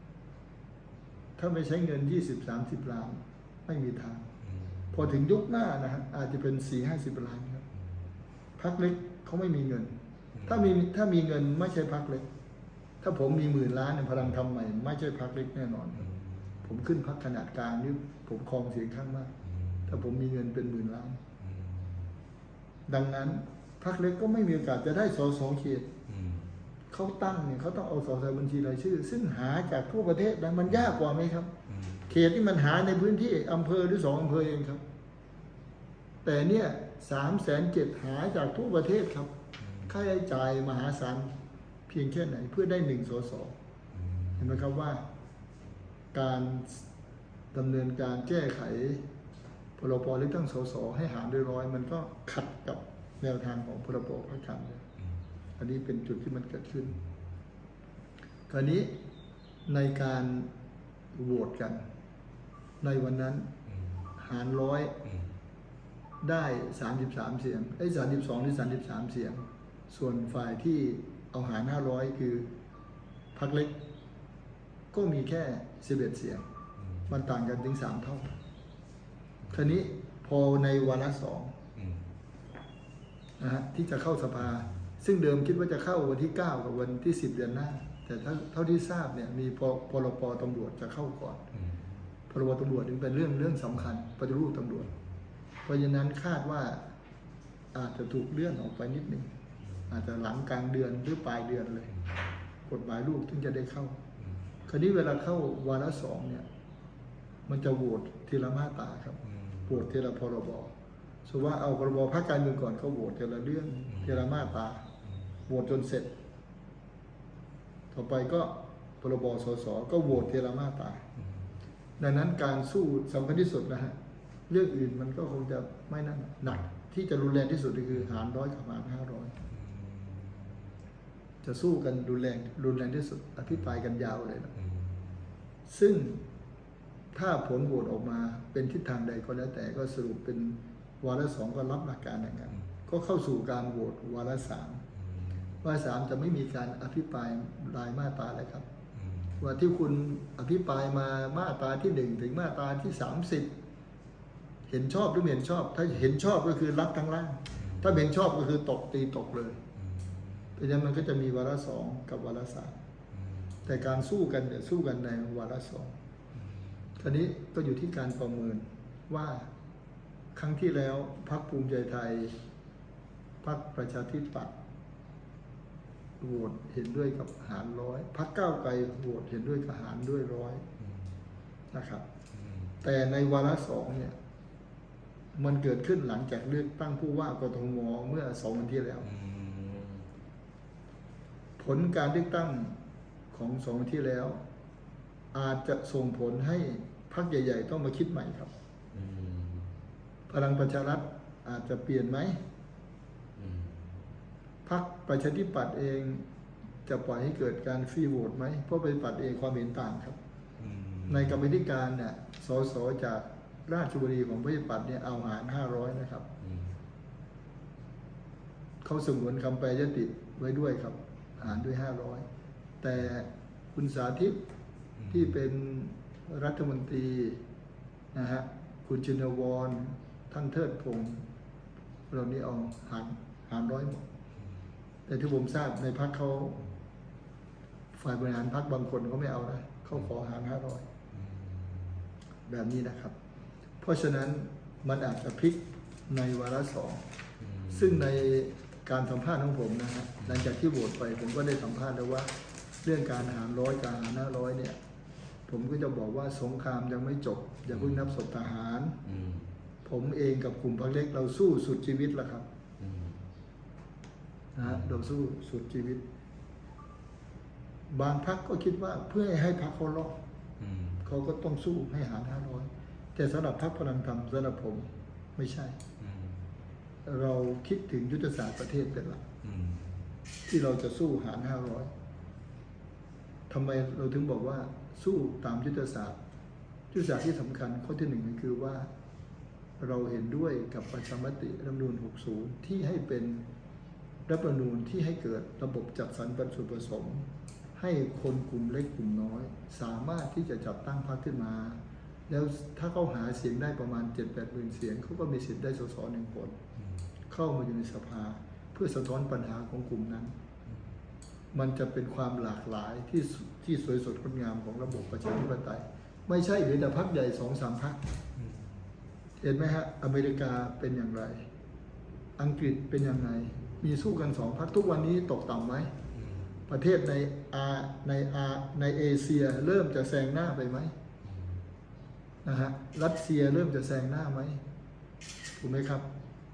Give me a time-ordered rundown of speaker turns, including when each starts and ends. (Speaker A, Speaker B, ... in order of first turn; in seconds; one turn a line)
Speaker A: 1.4-4.3
Speaker A: 4.9-7.7
Speaker A: 8.6-12.2
Speaker A: 13.0-16.1
Speaker A: 16.6-19.3
Speaker B: 19.5-19.9
Speaker A: 19.9-21.2
Speaker B: 21.4-22.1
Speaker A: 22.9-25.9
Speaker B: 26.1-26.5
Speaker A: 26.9-31.5
Speaker B: 31.7-32.1
Speaker A: 32.1-34.8
Speaker A: 36.2-39.3
Speaker A: 39.9-41.3
Speaker A: 41.9-43.5
Speaker B: 43.9-44.4
Speaker A: 44.4-45.0
Speaker A: 46.1-46.8
Speaker A: 47.5-49.0
Speaker A: 49.8-54.9
Speaker A: 55.6-57.0
Speaker A: 58.5-58.9
Speaker A: 59.7-60.5
Speaker A: 61.1-61.8
Speaker A: 62.8-63.5
Speaker A: 64.2-65.0
Speaker A: 66.2-72.5
Speaker A: 73.3-73.8
Speaker A: 74.9-76.5
Speaker A: 77.1-78.3
Speaker A: 79.5-81.6
Speaker A: 83.4-91.4
Speaker B: 91.6-91.8
Speaker A: 92.3-94.9
Speaker A: 95.7-96.8
Speaker A: 97.7-99.3
Speaker A: 99.9-101.9
Speaker A: 102.7-104.0
Speaker A: 104.7-106.5
Speaker A: 107.5-110.7
Speaker B: 109.4-109.7
Speaker A: 111.2-114.8
Speaker A: 115.5-116.1
Speaker A: 117.9-121.0
Speaker A: 122.0-124.0
Speaker A: 124.5-129.3
Speaker B: 129.5-130.4
Speaker A: 131.4-134.5
Speaker A: 135.7-136.2
Speaker A: 137.1-144.8
Speaker B: 145.1-145.4
Speaker A: 145.6-148.7
Speaker B: 149.0-149.4
Speaker A: 149.4-153.5
Speaker A: 154.7-159.6
Speaker B: 157.6-157.9
Speaker B: 159.9-160.4
Speaker A: 160.6-162.8
Speaker B: 163.2-163.7
Speaker A: 163.7-165.9
Speaker A: 167.0-169.5
Speaker A: 170.3-172.4
Speaker A: 173.4-174.5
Speaker A: 176.2-180.7
Speaker B: 180.8-181.1
Speaker A: 181.7-182.1
Speaker B: 182.4-182.8
Speaker A: 182.8-184.2
Speaker A: 185.3-189.1
Speaker B: 189.1-190.1
Speaker A: 191.6-192.8
Speaker A: 193.3-194.4
Speaker A: 195.3-198.5
Speaker B: 198.9-199.7
Speaker A: 200.3-202.4
Speaker B: 203.4-203.8
Speaker A: 204.7-206.2
Speaker A: 206.8-210.2
Speaker B: 210.6-211.3
Speaker A: 211.1-216.3
Speaker B: 216.4-216.7
Speaker A: 218.8-222.3
Speaker A: 222.8-224.4
Speaker A: 225.1-227.4
Speaker A: 228.1-231.2
Speaker A: 232.1-234.1
Speaker A: 235.1-236.6
Speaker A: 237.9-240.8
Speaker B: 241.1-241.9
Speaker A: 242.5-243.2
Speaker A: 243.8-247.0
Speaker B: 247.4-247.9
Speaker A: 247.7-252.3
Speaker A: 252.8-254.8
Speaker A: 255.5-259.0
Speaker B: 259.1-259.5
Speaker A: 259.9-262.5
Speaker B: 262.8-263.2
Speaker A: 264.6-266.0
Speaker A: 267.9-270.2
Speaker B: 270.6-271.0
Speaker A: 271.0-275.8
Speaker B: 276.0-276.4
Speaker A: 277.1-279.2
Speaker B: 279.4-280.0
Speaker A: 280.5-281.9
Speaker A: 283.5-286.2
Speaker A: 286.9-288.9
Speaker A: 289.8-293.4
Speaker A: 294.3-297.3
Speaker A: 297.8-306.6
Speaker A: 307.3-310.3
Speaker A: 311.5-318.0
Speaker A: 319.4-321.5
Speaker A: 322.4-325.9
Speaker A: 326.7-330.9
Speaker A: 332.4-334.6
Speaker A: 335.6-336.1